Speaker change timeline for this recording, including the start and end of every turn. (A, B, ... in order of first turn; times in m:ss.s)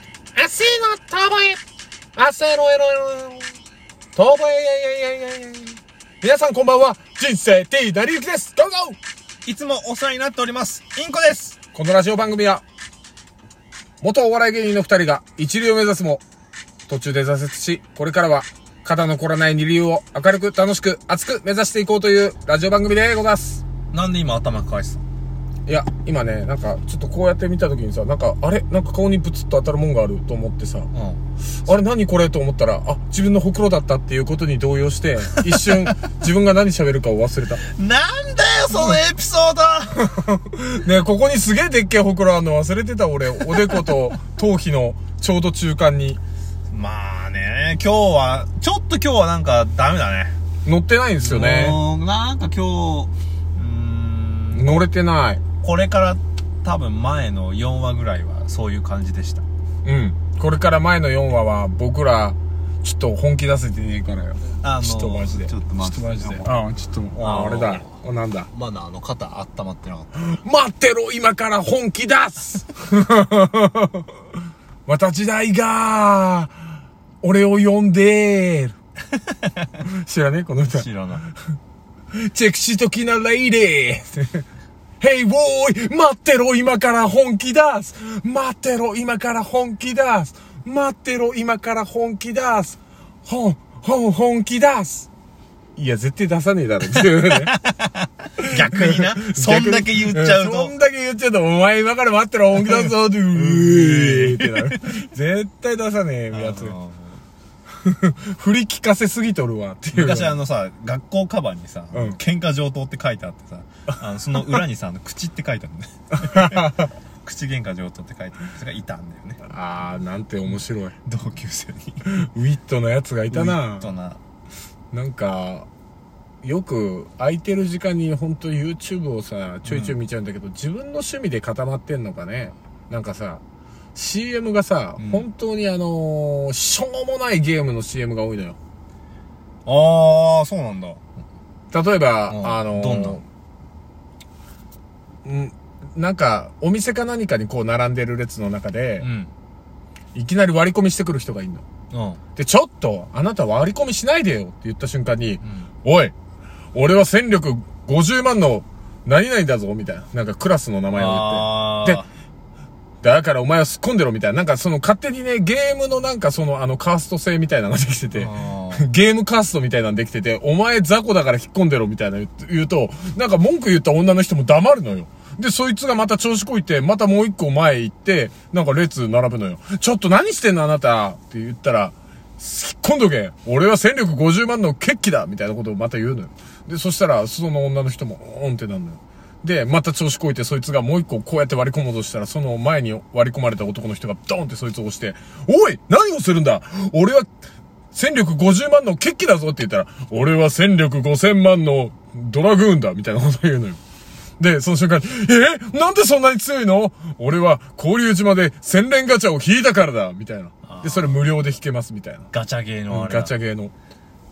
0:00.3-0:01.6 A
0:02.1-0:03.6 A
0:04.1-0:09.0 A
0:09.4-0:11.6 B
0:11.7-0:12.6 A
0:14.0-0:16.2 A
0:16.9-0:23.6 A
0:23.9-0:25.0 B
0:25.6-0:30.9 A
0:30.9-0:31.2 B
0:31.6-0:37.6 A
0:35.5-0:35.8 B
0:37.6-0:40.1 B
0:40.0-0:46.2 A
0:46.7-0:50.3 B
0:50.6-0:51.8 A
0:51.2-0:54.8 B
0:54.5-0:55.4 A
0:55.6-0:59.4 B
0:59.8-1:08.5 A
1:04.6-1:06.5 B
1:07.1-1:08.0 B
1:08.5-1:10.3 B
1:10.2-1:14.0 A
1:14.9-1:16.7 A
1:17.2-1:18.7 A
1:19.8-1:21.3 A
1:20.7-1:21.3 B
1:22.1-1:24.4 A
1:25.0-1:35.1 A
1:35.8-1:37.5 A
1:37.3-1:40.7 B
1:38.4-1:46.7 A
1:42.5-1:45.0 B
1:46.3-1:47.2 B
1:47.8-1:50.4 A
1:49.9-1:59.4 B
1:51.9-1:52.2 A
1:56.1-1:56.9 A
1:59.4-2:01.0 A
2:01.0-2:02.0 B
2:02.0-2:03.9 A
2:03.3-2:04.2 B
2:04.9-2:05.7 A
2:06.4-2:13.4 A
2:09.6-2:10.0 B
2:13.9-2:18.6 A
2:15.0-2:15.2 B
2:19.6-2:21.0 B
2:21.7-2:23.2 A
2:22.3-2:23.2 B
2:25.2-2:29.1 A
2:29.0-2:29.3 B
2:30.1-2:31.6 A
2:31.9-2:32.2 B
2:32.4-2:36.1 A
2:35.4-2:35.7 B
2:36.7-2:42.0 A
2:40.9-2:42.0 B
2:43.0-3:17.3 A
2:48.1-2:48.8 B
3:17.9-3:23.8 A
3:24.4-3:32.3 A
3:30.6-3:31.2 B
3:32.3-3:33.3 B
3:32.9-3:33.7 A